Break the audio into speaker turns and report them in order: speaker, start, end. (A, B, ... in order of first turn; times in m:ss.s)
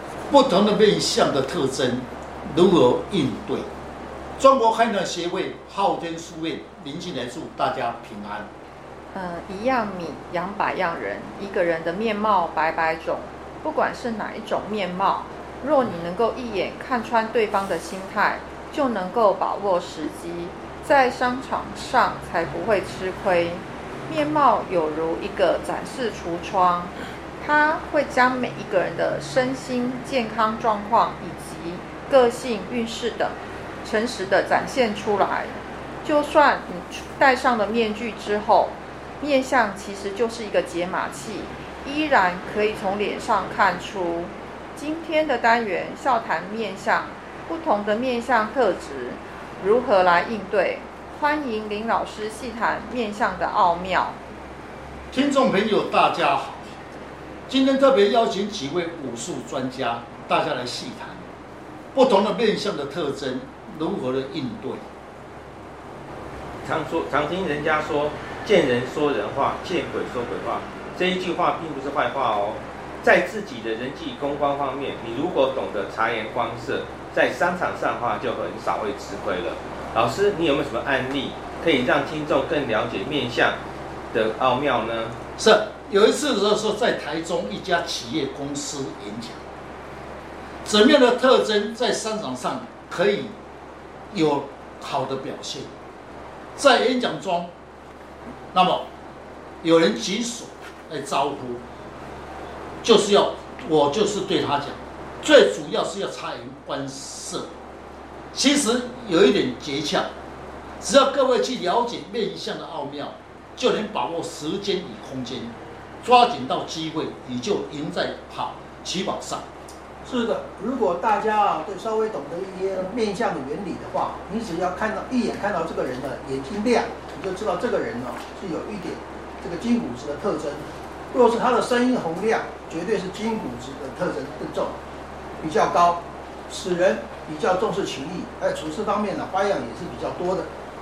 0:00.3-0:03.7 A
0:04.4-0:08.5 A
0:09.1-0:54.2 B
0:55.1-0:56.8 A
0:57.5-1:01.3 A
1:01.9-1:04.8 A
1:06.6-1:23.6 C
1:24.1-1:25.2 C
1:25.4-1:29.4 A
1:30.6-1:33.4 A
1:34.1-1:35.7 A
1:36.6-1:37.5 A
1:38.5-1:38.9 A
1:39.6-1:41.6 A
1:42.8-1:47.5 A
1:48.3-1:50.1 A
1:50.8-1:59.4 A
2:00.0-2:14.8 D
2:15.4-2:20.5 D